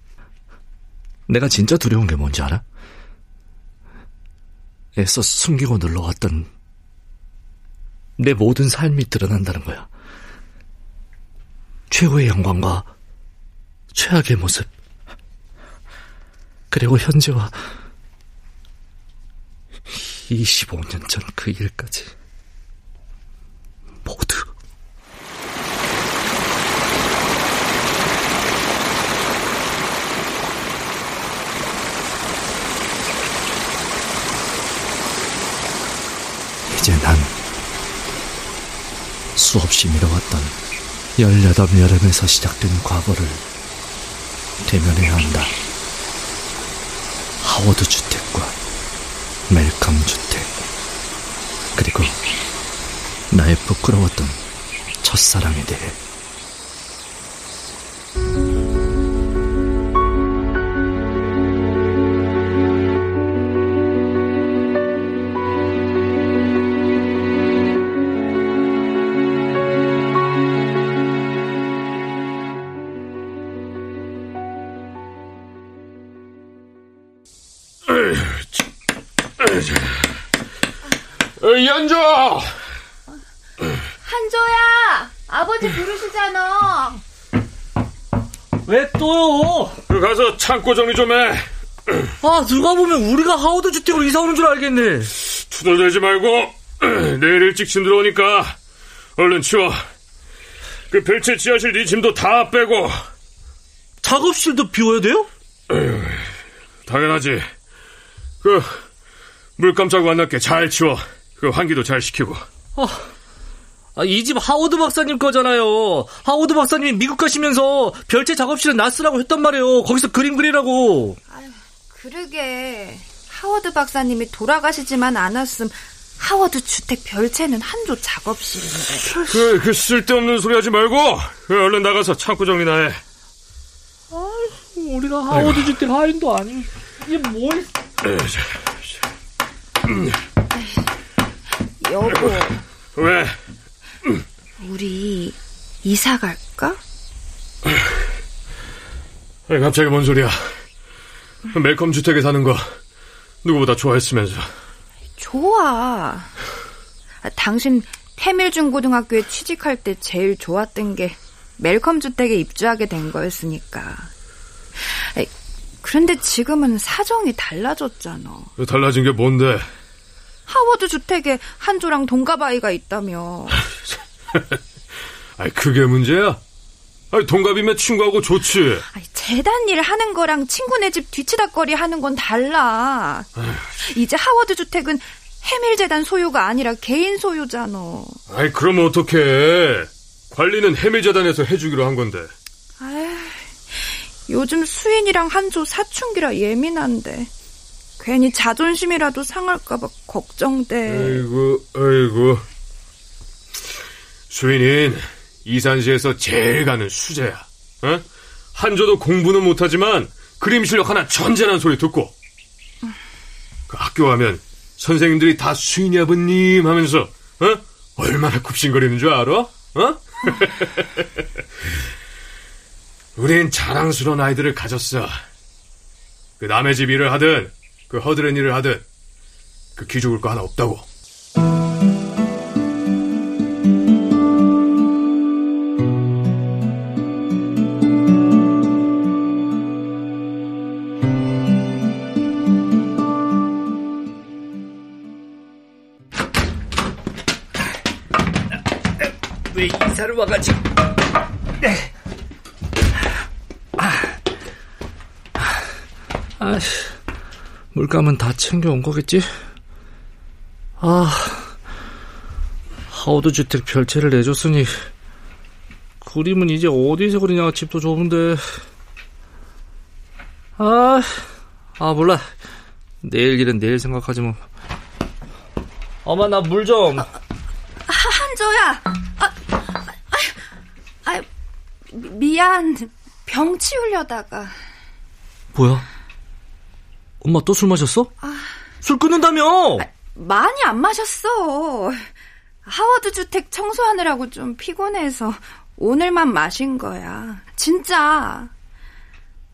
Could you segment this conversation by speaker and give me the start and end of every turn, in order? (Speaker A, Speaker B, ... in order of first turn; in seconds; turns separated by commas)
Speaker A: 1.3-2.6, Speaker A: 5.0-6.5, Speaker A: 8.2-9.9, Speaker A: 11.9-12.9, Speaker A: 13.9-14.7, Speaker A: 16.7-17.6, Speaker A: 19.9-22.1, Speaker A: 24.1-24.5, Speaker A: 36.7-37.4, Speaker A: 39.4-40.6, Speaker A: 41.2-43.4, Speaker A: 44.6-45.5, Speaker A: 47.4-48.6, Speaker A: 49.5-50.7, Speaker A: 51.8-52.2, Speaker A: 53.3-54.4, Speaker A: 55.0-56.0, Speaker B: 77.9-78.2, Speaker B: 79.4-80.0, Speaker B: 81.4-82.6, Speaker C: 84.0-87.0, Speaker A: 88.6-89.8, Speaker B: 89.9-92.0, Speaker A: 92.2-95.1, Speaker B: 95.2-98.6, Speaker B: 99.2-99.9, Speaker B: 100.9-103.0, Speaker A: 104.0-105.3, Speaker B: 105.7-106.3, Speaker B: 106.8-107.5, Speaker B: 108.4-108.8, Speaker B: 109.6-112.5, Speaker A: 112.8-113.1, Speaker A: 114.0-121.2, Speaker C: 121.3-129.1, Speaker A: 129.1-129.4, Speaker B: 129.3-133.0, Speaker A: 134.1-137.7, Speaker B: 135.3-135.7, Speaker B: 138.1-138.4, Speaker C: 141.8-142.6, Speaker B: 142.9-143.4, Speaker C: 144.6-146.8, Speaker B: 149.5-150.6, Speaker B: 151.5-152.8, Speaker B: 153.4-154.5, Speaker C: 155.2-156.3, Speaker C: 157.2-164.1, Speaker C: 164.8-165.3, Speaker C: 165.8-168.5, Speaker B: 168.6-169.7, Speaker C: 170.5-173.6, Speaker B: 175.4-176.4, Speaker B: 177.1-178.8, Speaker C: 178.9-188.2, Speaker B: 188.3-192.3, Speaker C: 192.8-197.3, Speaker C: 198.0-201.2, Speaker B: 200.9-202.5, Speaker B: 204.3-212.1, Speaker B: 213.7-221.0, Speaker B: 223.2-225.2, Speaker B: 226.4-228.8, Speaker B: 229.8-230.9, Speaker A: 249.5-250.6, Speaker A: 253.8-254.2, Speaker A: 256.4-256.9, Speaker A: 257.7-259.3, Speaker A: 260.8-261.6, Speaker A: 262.9-264.9, Speaker A: 266.0-268.6, Speaker A: 270.6-272.3, Speaker A: 273.0-274.4, Speaker A: 276.1-277.1, Speaker C: 277.9-279.3, Speaker C: 281.9-284.6, Speaker A: 285.5-285.9, Speaker A: 287.2-288.1, Speaker A: 288.8-289.9, Speaker C: 290.0-292.1, Speaker C: 292.6-298.5